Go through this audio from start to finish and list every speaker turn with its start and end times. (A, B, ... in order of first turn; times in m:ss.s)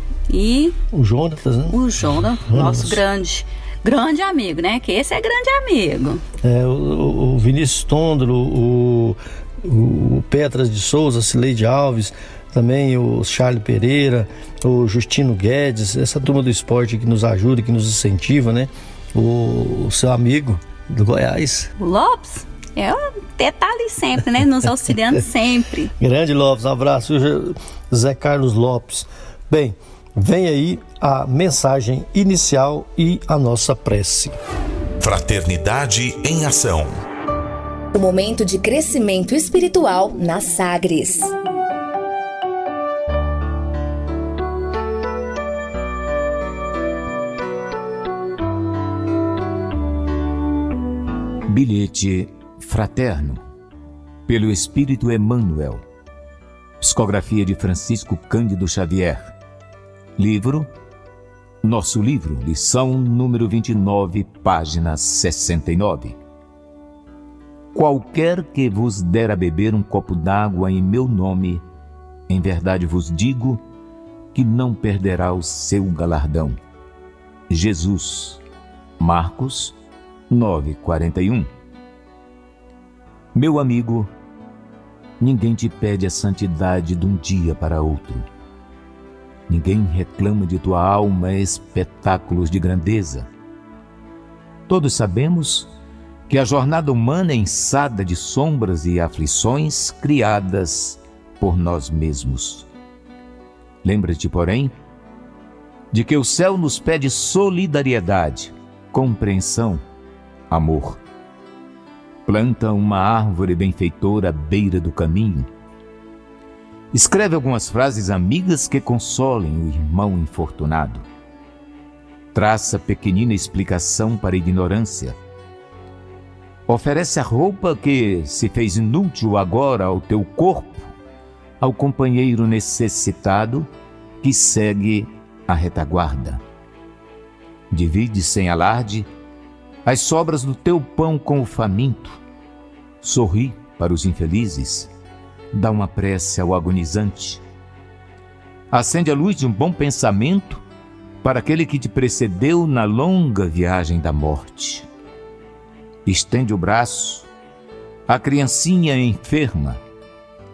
0:00.3-0:00.7 A
0:00.9-0:03.0 B
0:01.7-0:06.2 A
0:06.4-0:21.7 B
0:21.8-0:25.9 A
0:26.0-0:34.3 B
0:35.0-0:37.0 C
0:37.9-0:41.3 D
0:51.5-0:53.4 E
0:54.3-0:55.8 E
0:56.8-0:59.3 E
1:00.2-1:00.7 E
1:01.6-1:06.2 E
1:07.7-1:11.6 E
1:12.3-1:13.6 E
1:14.3-1:16.6 E
1:17.5-1:18.4 E
1:19.0-1:19.8 E
1:20.3-1:21.5 E
1:23.3-1:24.1 E
1:25.2-1:28.3 E
1:29.5-1:33.3 E
1:34.7-1:35.7 E
1:36.3-1:42.7 E
1:43.8-1:44.7 E
1:45.9-1:49.8 E
1:50.5-1:51.0 E
1:52.2-1:55.5 E
1:56.9-2:01.0 E
2:02.3-2:05.2 E
2:06.7-2:10.9 E
2:11.6-2:13.7 E
2:14.2-2:16.4 E
2:17.7-2:19.1 E
2:19.8-2:22.2 E
2:23.0-2:24.9 E
2:25.5-2:27.4 E
2:28.7-2:30.6 E
2:31.2-2:34.9 E
2:36.0-2:37.3 E
2:38.1-2:39.8 E